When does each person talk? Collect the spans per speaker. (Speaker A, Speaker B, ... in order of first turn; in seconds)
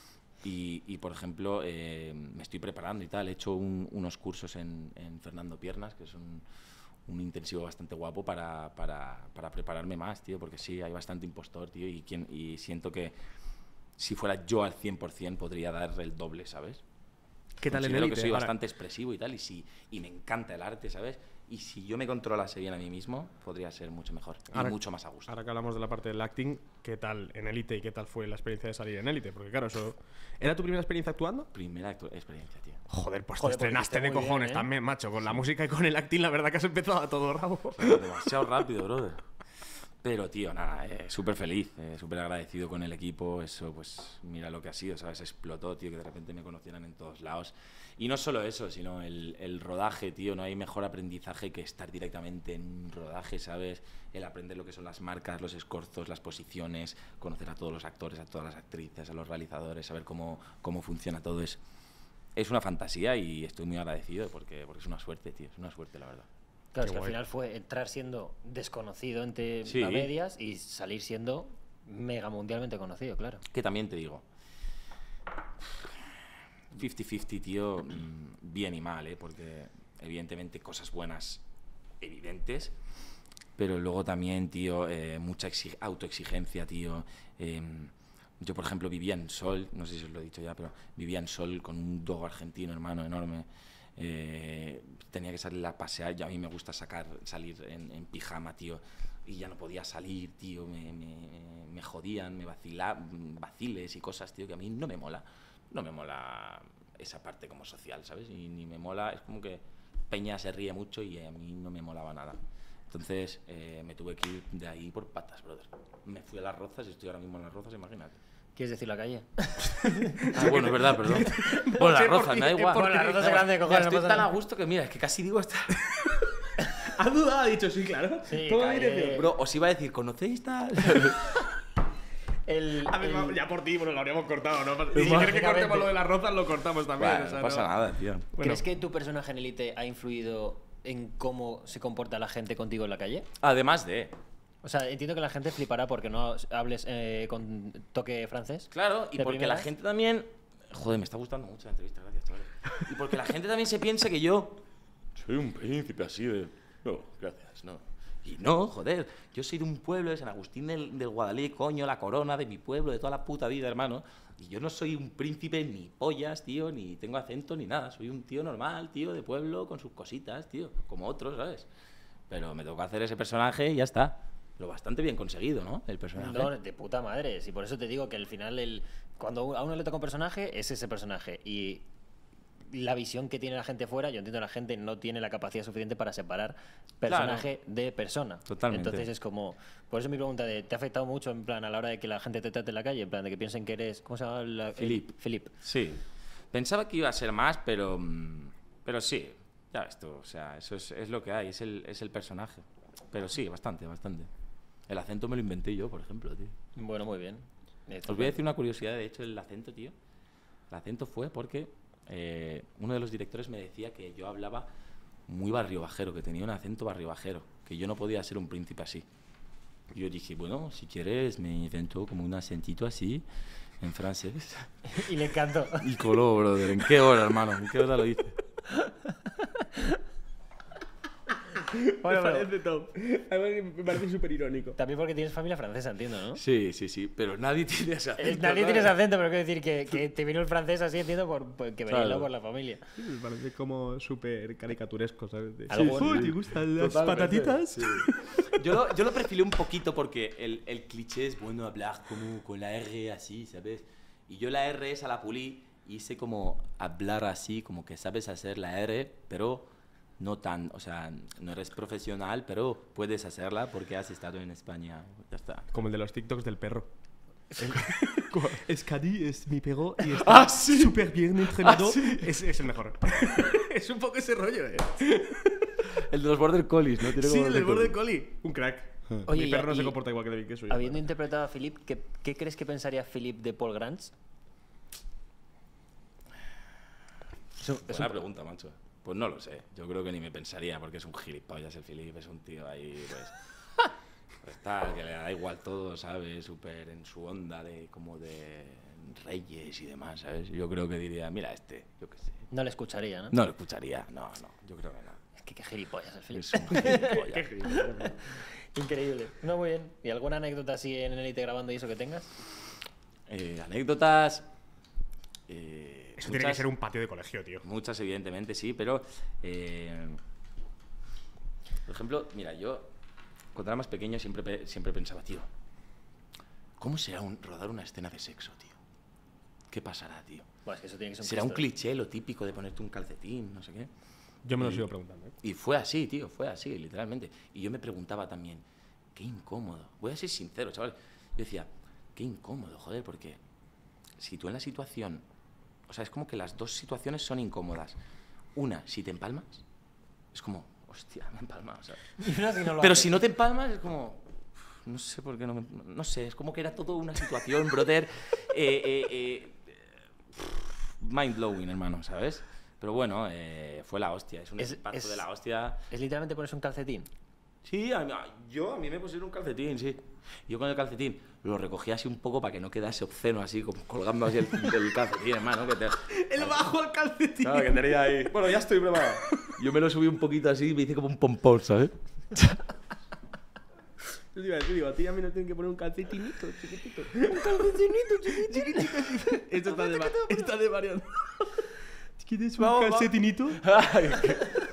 Speaker A: 0.4-6.4, 7.0-13.2, 14.0-16.8, 17.6-25.3, 31.5-32.8, 37.8-39.2, 40.0-61.6, 62.4-66.3, 69.6-70.1, 73.5-74.2, 76.7-81.4, 82.0-82.8, 83.6-118.2, 120.3-126.1, 129.0-131.3, 134.9-135.3, 137.0-138.6, 143.4-144.1, 148.7-154.6, 155.2-171.7, 172.3-176.5, 187.1-187.5, 188.5-189.1, 194.8-204.3, 204.9-206.6, 208.1-209.9, 210.7-214.7, 215.3-219.1, 219.9-223.2, 223.8-224.7, 225.7-228.4, 236.3-238.9, 241.9-242.3, 246.0-265.7, 267.6-268.2, 270.1-271.0, 271.6-272.4, 275.1-278.0, 287.8-293.9, 294.4-302.4, 303.3-305.2, 306.3-307.5, 313.3-314.5, 315.5-316.6, 317.6-320.2, 321.9-322.9, 323.5-325.5, 326.8-328.8, 329.7-330.5, 331.2-333.9, 334.6-334.8, 335.4-343.4, 344.2-345.2, 345.9-348.0, 348.5-349.6, 350.3-352.1, 352.8-365.8, 367.6-376.8, 377.4-382.6, 392.6-393.0, 393.6-394.5
Speaker B: 17.6-18.5, 24.5-31.5, 32.9-38.3, 66.8-67.1, 120.0-123.4, 126.8-129.2, 132.9-137.7, 231.7-234.8, 242.9-248.4, 265.7-266.9, 268.2-275.2, 277.1-281.0, 306.8-308.3, 316.2-317.6, 334.4-335.3, 376.1-377.9, 379.2-379.5, 384.3-393.6
Speaker C: 33.4-34.7, 66.7-73.4, 118.5-121.9, 122.6-124.3, 128.3-129.3, 132.4-133.4, 135.0-136.0, 138.3-143.3, 144.6-149.7, 176.2-181.8, 182.7-195.5, 206.8-208.4, 224.9-225.9, 232.0-232.5, 234.8-236.4, 238.2-242.8, 245.7-247.6, 279.2-279.9, 280.7-284.1, 287.6-288.1, 302.5-303.3, 305.4-312.3, 330.6-331.6, 352.2-353.2, 364.6-365.2, 365.9-367.1, 387.3-390.4